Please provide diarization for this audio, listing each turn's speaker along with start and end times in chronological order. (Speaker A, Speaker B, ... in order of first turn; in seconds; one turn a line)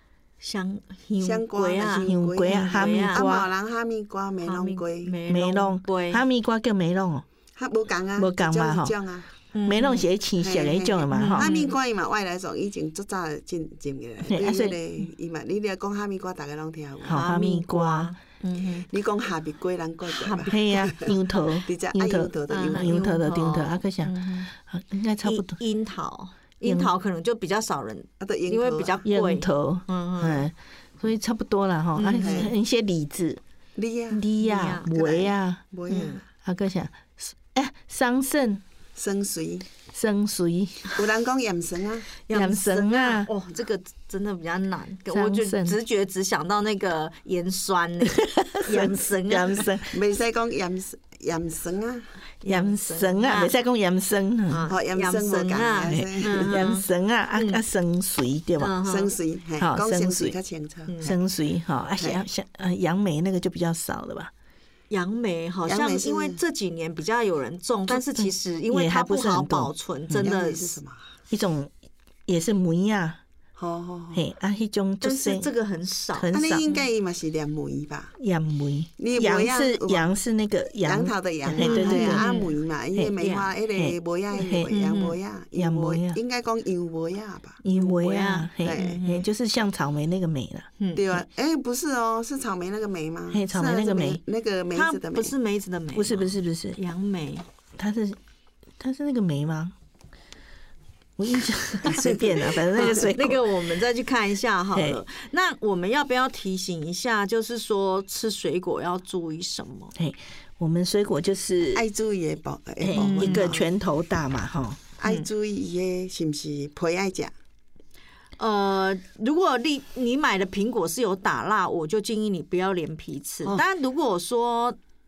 Speaker A: 0.4-3.3
Speaker B: 1.2-5.2
Speaker C: 2.0-3.5
Speaker A: 4.4-6.2
Speaker C: 5.3-7.2
Speaker B: 7.5-9.3
Speaker C: 8.2-8.9
Speaker A: 9.5-10.1
Speaker C: 9.6-11.5
Speaker B: 10.4-17.2
Speaker A: 11.1-11.7
Speaker C: 14.3-14.8
Speaker C: 17.0-18.1
Speaker A: 17.1-18.9
Speaker B: 18.9-21.1
Speaker A: 20.1-20.8
Speaker C: 20.5-25.6
Speaker B: 21.6-23.0
Speaker A: 22.5-24.5
Speaker A: 25.2-30.5
Speaker C: 26.6-26.9
Speaker B: 28.2-29.0
Speaker C: 29.1-33.4
Speaker A: 31.9-32.5
Speaker B: 32.2-32.5
Speaker B: 33.8-36.2
Speaker C: 34.1-35.6
Speaker A: 34.4-34.9
Speaker A: 35.9-36.2
Speaker C: 36.4-38.6
Speaker B: 39.0-39.7
Speaker C: 39.9-40.9
Speaker B: 40.9-42.1
Speaker A: 42.3-49.7
Speaker C: 42.3-43.3
Speaker C: 45.1-45.8
Speaker C: 48.2-49.9
Speaker B: 49.9-52.1
Speaker A: 52.4-53.5
Speaker C: 52.4-54.7
Speaker A: 54.5-57.6
Speaker B: 54.7-56.7
Speaker C: 55.9-58.8
Speaker A: 58.6-59.1
Speaker B: 58.8-61.2
Speaker C: 59.6-60.4
Speaker A: 60.9-61.1
Speaker C: 61.0-64.3
Speaker A: 64.9-70.8
Speaker B: 65.6-66.4
Speaker C: 67.9-70.3
Speaker B: 70.2-71.1
Speaker C: 71.3-71.7
Speaker C: 72.3-73.2
Speaker B: 73.5-74.2
Speaker C: 74.1-75.5
Speaker A: 75.0-76.8
Speaker C: 76.1-76.6
Speaker B: 76.3-78.1
Speaker C: 78.2-82.2
Speaker B: 79.0-80.1
Speaker B: 80.8-87.6
Speaker A: 81.5-82.5
Speaker A: 83.2-83.5
Speaker C: 83.8-84.7
Speaker A: 84.7-85.2
Speaker C: 85.5-86.2
Speaker C: 87.6-90.7
Speaker A: 87.7-89.2
Speaker B: 88.6-89.0
Speaker B: 90.9-95.3
Speaker C: 93.3-94.2
Speaker A: 94.7-97.4
Speaker C: 95.9-96.8
Speaker C: 97.7-98.2
Speaker C: 98.8-99.7
Speaker C: 101.2-103.5
Speaker B: 101.8-103.0
Speaker A: 102.7-109.9
Speaker C: 104.7-105.0
Speaker C: 110.0-111.8
Speaker B: 111.7-113.6
Speaker C: 112.8-114.8
Speaker A: 112.9-113.7
Speaker B: 115.0-117.3
Speaker A: 118.4-124.8